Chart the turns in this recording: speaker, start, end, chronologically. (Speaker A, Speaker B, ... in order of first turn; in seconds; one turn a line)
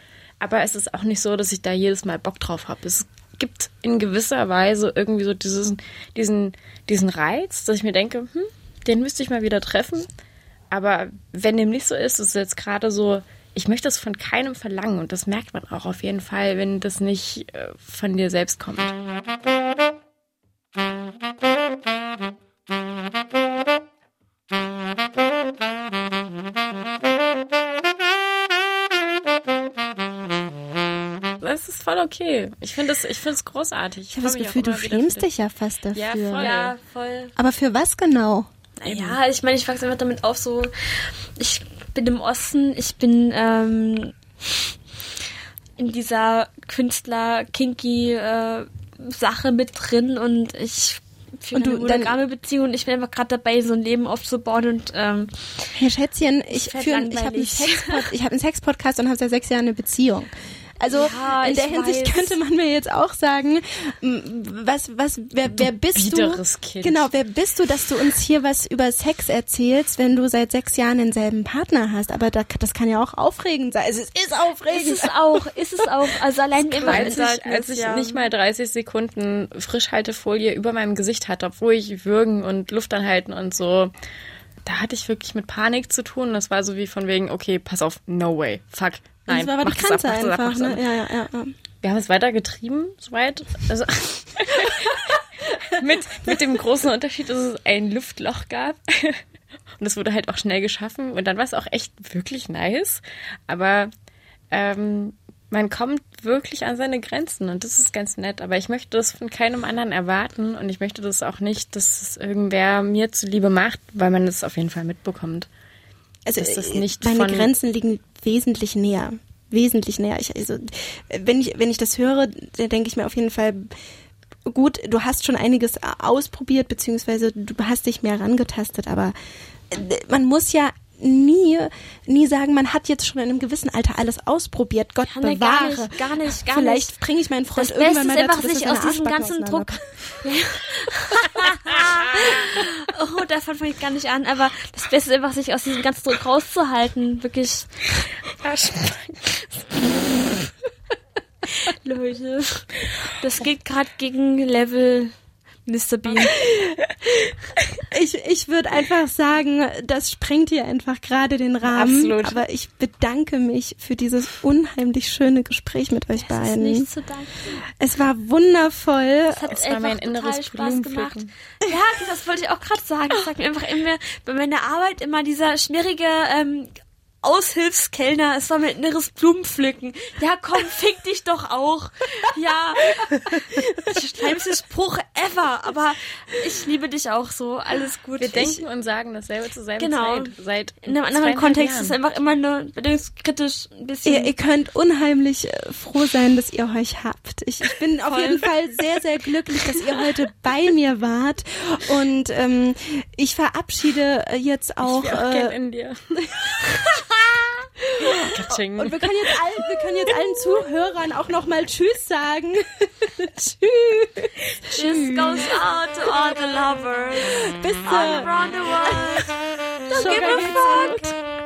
Speaker A: 0.4-10.1
Speaker A: 10.7-18.9
Speaker A: 31.4-35.2
Speaker B: 34.1-36.5
Speaker A: 35.9-36.7
Speaker C: 36.4-37.3
Speaker B: 37.4-38.5
Speaker A: 38.8-39.2
Speaker C: 38.8-44.1
Speaker C: 45.8-55.7
Speaker B: 51.5-52.2
Speaker B: 55.7-75.8
Speaker C: 56.5-58.0
Speaker C: 60.9-62.4
Speaker A: 65.6-67.0
Speaker C: 74.7-78.3
Speaker A: 76.7-83.9
Speaker B: 76.8-77.2
Speaker A: 84.6-90.8
Speaker B: 89.3-91.5
Speaker A: 91.8-99.2
Speaker A: 99.8-103.9
Speaker A: 104.5-115.5
Speaker B: 116.2-123.7
Speaker A: 116.4-117.5
Speaker B: 124.5-129.1
Speaker B: 129.7-139.8
Speaker C: 135.1-136.9
Speaker C: 137.5-147.8
Speaker A: 148.3-149.3
Speaker C: 151.5-155.1
Speaker C: 155.7-156.3
Speaker B: 157.8-166.9
Speaker A: 161.7-162.4
Speaker C: 166.2-167.6
Speaker B: 167.8-169.4
Speaker C: 169.3-188.6
Speaker A: 169.5-171.3
Speaker A: 188.2-192.0
Speaker C: 189.8-194.3
Speaker B: 194.0-205.5
Speaker C: 198.1-198.5
Speaker A: 204.8-206.0
Speaker B: 207.9-215.5
Speaker A: 208.0-209.3
Speaker C: 214.7-219.3
Speaker B: 217.2-219.2
Speaker C: 219.9-221.1
Speaker B: 219.9-221.1